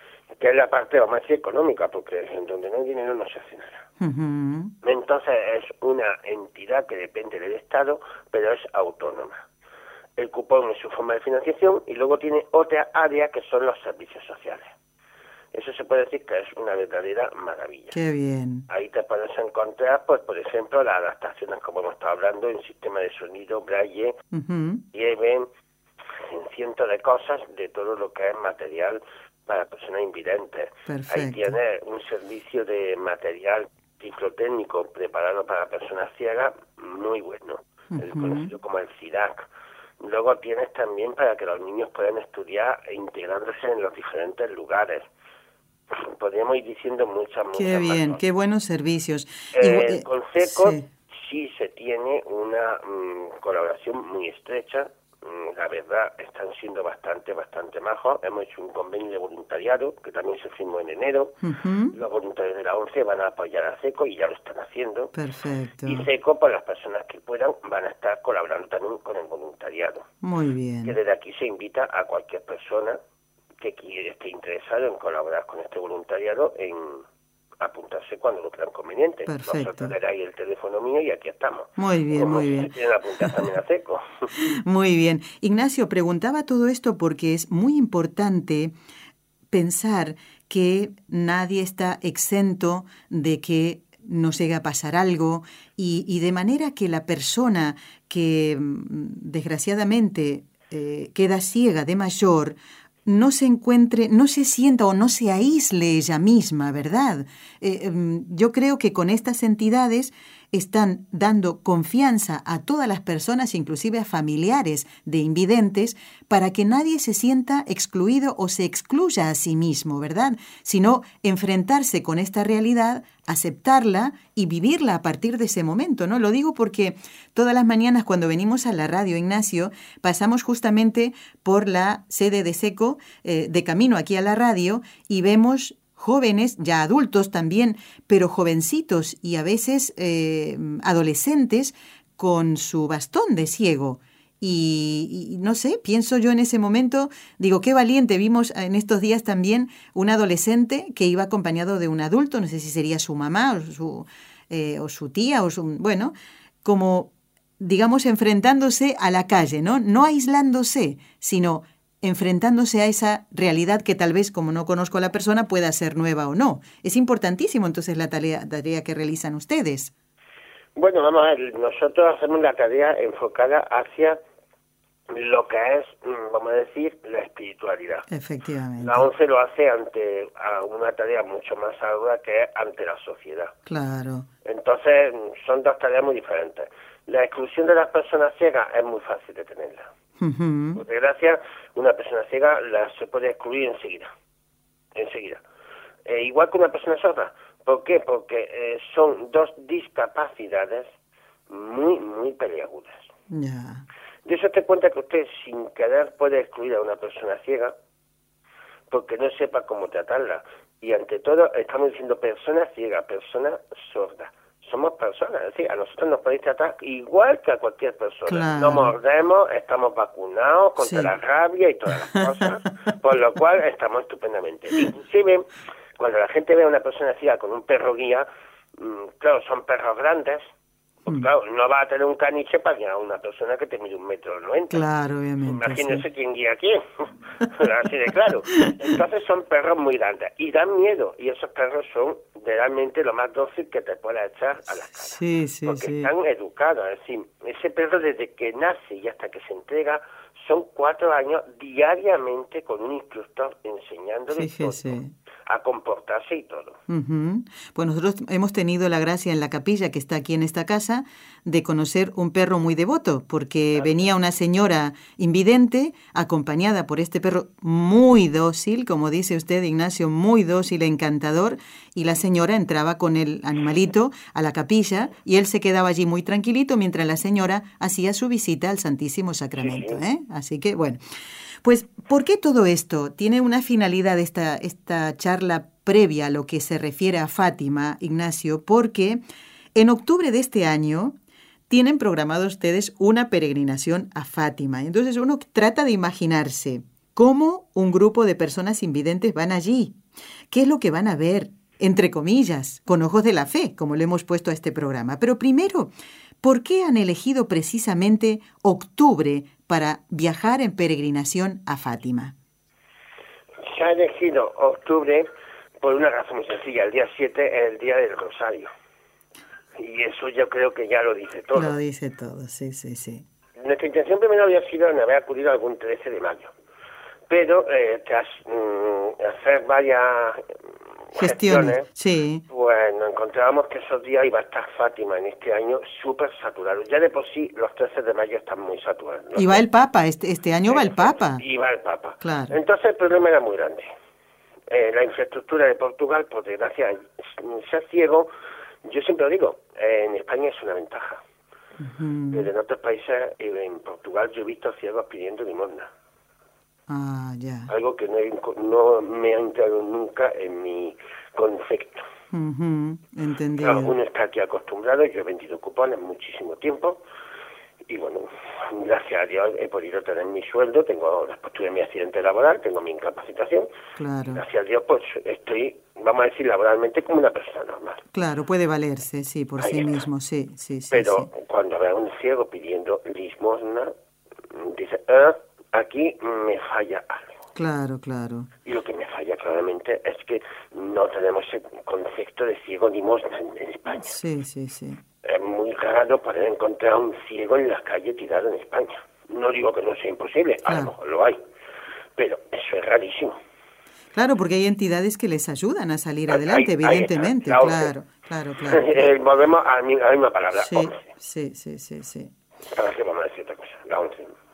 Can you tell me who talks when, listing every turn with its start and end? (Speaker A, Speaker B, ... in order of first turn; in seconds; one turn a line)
Speaker A: 0.4-3.9
Speaker B: 4.0-4.7
Speaker A: 4.8-9.5
Speaker A: 10.2-14.7
Speaker A: 15.5-17.9
Speaker B: 17.9-18.6
Speaker A: 18.7-24.2
Speaker B: 24.3-24.8
Speaker A: 24.9-25.5
Speaker A: 26.2-39.5
Speaker B: 30.9-31.5
Speaker B: 37.9-38.5
Speaker A: 40.0-45.1
Speaker A: 45.9-48.2
Speaker B: 47.5-50.8
Speaker A: 49.5-61.4
Speaker B: 61.4-62.0
Speaker A: 61.9-65.1
Speaker B: 65.1-66.1
Speaker A: 65.8-70.1
Speaker B: 70.2-70.9
Speaker A: 70.8-73.0
Speaker A: 73.6-77.0
Speaker A: 77.6-84.3
Speaker B: 79.3-80.0
Speaker B: 81.8-82.7
Speaker B: 84.3-88.7
Speaker B: 89.5-169.9
Speaker A: 170.8-174.2
Speaker A: 175.1-178.1
Speaker B: 178.1-179.1
Speaker A: 178.8-183.5
Speaker B: 183.7-184.3
Speaker A: 184.4-189.9
Speaker B: 190.2-190.8
Speaker A: 190.7-194.1
Speaker A: 194.9-195.4
Speaker A: 196.1-200.9
Speaker A: 201.5-203.1
Speaker B: 203.3-203.8
Speaker A: 204.2-207.7
Speaker A: 208.9-230.4
Speaker B: 218.3-218.9
Speaker B: 220.8-221.1
Speaker A: 231.1-234.8
Speaker B: 234.7-236.0
Speaker A: 235.4-256.8
Speaker B: 244.9-246.1
Speaker B: 254.3-255.1
Speaker B: 256.9-281.0
Speaker A: 279.6-280.0
Speaker B: 281.6-289.2
Speaker B: 289.7-291.1
Speaker B: 291.7-300.0
Speaker B: 300.5-305.9
Speaker B: 306.4-312.3
Speaker A: 313.6-315.3
Speaker A: 315.8-318.7
Speaker A: 319.8-321.7
Speaker B: 321.5-323.2
Speaker A: 323.6-326.5
Speaker A: 327.3-330.4
Speaker A: 331.1-331.9
Speaker B: 331.2-332.4
Speaker A: 332.5-339.6
Speaker B: 339.4-341.4
Speaker A: 340.7-343.9
Speaker B: 342.2-342.5
Speaker A: 344.7-348.3
Speaker A: 348.8-351.2
Speaker B: 351.8-352.5
Speaker A: 352.3-355.9
Speaker B: 356.9-357.7
Speaker A: 357.7-362.0
Speaker B: 362.3-363.9
Speaker A: 363.6-367.0
Speaker A: 367.9-373.7
Speaker B: 374.0-374.4
Speaker A: 374.3-378.0
Speaker B: 378.1-381.3
Speaker A: 379.6-379.9
Speaker A: 380.9-383.9
Speaker A: 384.5-387.3
Speaker B: 387.6-388.5
Speaker A: 388.6-394.1
Speaker B: 394.0-395.0
Speaker A: 395.2-401.4
Speaker A: 402.2-403.4
Speaker B: 404.1-408.9
Speaker A: 406.3-407.9
Speaker A: 408.7-411.0
Speaker B: 410.5-412.3
Speaker A: 412.7-414.3